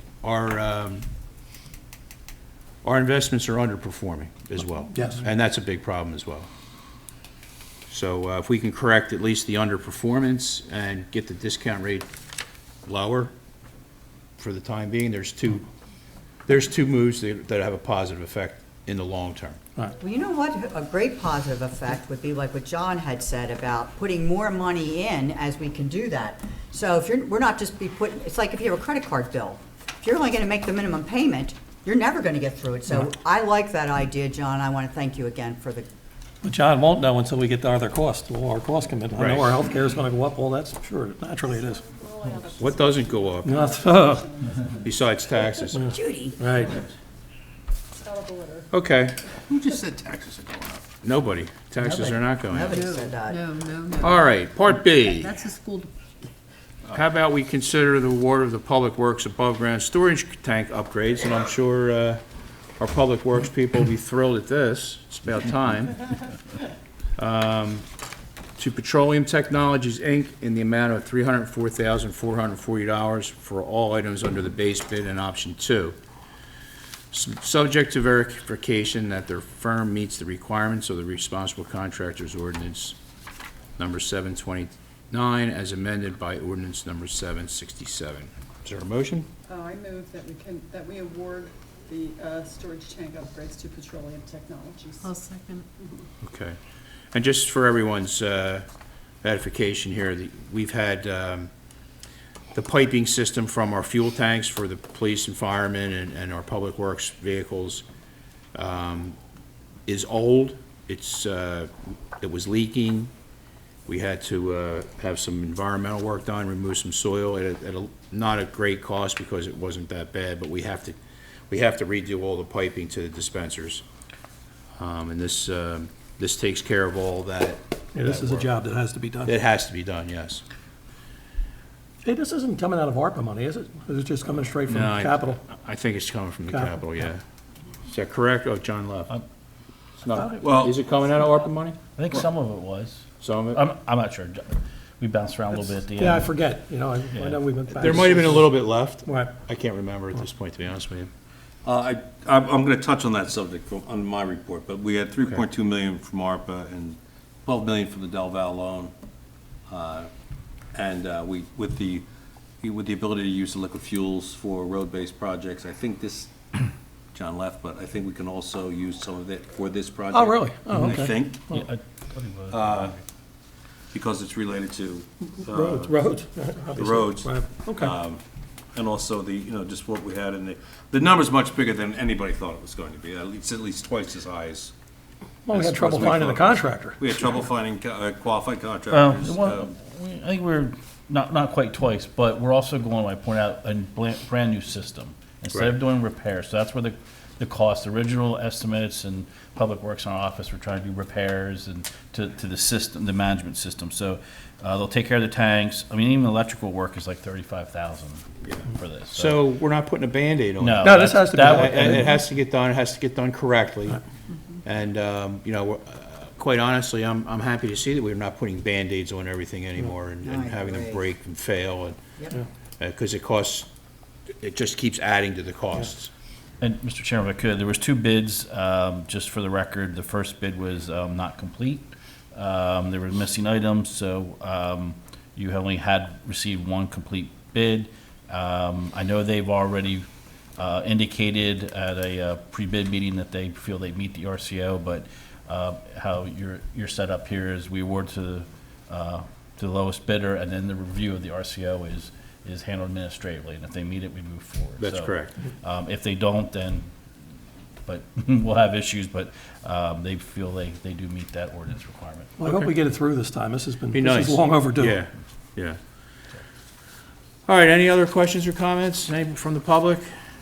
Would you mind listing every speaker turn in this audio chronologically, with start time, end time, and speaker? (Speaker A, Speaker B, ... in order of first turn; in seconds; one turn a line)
Speaker A: 0.2-1.1
Speaker A: 2.8-6.5
Speaker B: 5.0-5.2
Speaker A: 7.9-12.1
Speaker A: 12.9-13.3
Speaker A: 14.4-15.7
Speaker A: 16.5-19.6
Speaker C: 20.0-35.9
Speaker B: 36.4-41.8
Speaker A: 39.1-39.6
Speaker D: 41.4-45.4
Speaker A: 42.6-43.6
Speaker B: 43.4-44.2
Speaker A: 44.8-46.0
Speaker C: 45.9-46.4
Speaker B: 46.4-46.7
Speaker D: 48.0-48.7
Speaker A: 48.7-49.2
Speaker E: 49.5-50.8
Speaker A: 51.0-52.9
Speaker C: 51.8-53.6
Speaker F: 52.7-54.1
Speaker A: 54.0-55.5
Speaker F: 55.2-55.9
Speaker A: 56.9-62.2
Speaker A: 62.8-66.0
Speaker A: 67.2-67.8
Speaker A: 68.6-76.0
Speaker A: 77.1-83.0
Speaker A: 83.8-89.3
Speaker D: 89.5-95.2
Speaker F: 95.0-95.7
Speaker D: 95.8-96.1
Speaker A: 96.2-96.6
Speaker A: 97.1-98.7
Speaker A: 99.2-101.5
Speaker A: 102.5-107.8
Speaker A: 108.5-109.2
Speaker A: 109.9-113.1
Speaker A: 113.9-121.0
Speaker A: 121.5-123.8
Speaker A: 124.8-128.5
Speaker B: 128.0-129.3
Speaker A: 129.2-130.4
Speaker B: 132.1-135.4
Speaker A: 134.7-137.2
Speaker B: 136.5-136.8
Speaker A: 137.9-139.1
Speaker A: 140.0-142.2
Speaker E: 140.4-140.7
Speaker G: 142.0-146.3
Speaker A: 143.2-143.6
Speaker B: 146.0-148.5
Speaker G: 147.1-147.4
Speaker A: 147.7-151.1
Speaker B: 149.1-149.3
Speaker E: 151.7-158.9
Speaker E: 159.7-160.1
Speaker E: 160.7-162.1
Speaker E: 162.6-171.6
Speaker B: 170.1-171.6
Speaker G: 171.5-173.0
Speaker E: 172.5-173.0
Speaker E: 173.9-176.0
Speaker B: 175.6-177.9
Speaker E: 176.7-178.2
Speaker E: 178.7-184.7
Speaker B: 185.5-187.0
Speaker E: 185.5-189.7
Speaker G: 188.9-209.4
Speaker A: 208.4-214.0
Speaker G: 210.6-212.1
Speaker B: 210.8-212.0
Speaker A: 214.7-222.0
Speaker C: 220.2-221.0
Speaker A: 222.8-223.7
Speaker A: 224.4-226.1
Speaker G: 226.6-240.1
Speaker G: 240.6-256.9
Speaker A: 254.8-255.3
Speaker G: 257.9-262.5
Speaker B: 262.4-265.0
Speaker A: 263.9-265.8
Speaker A: 267.5-270.2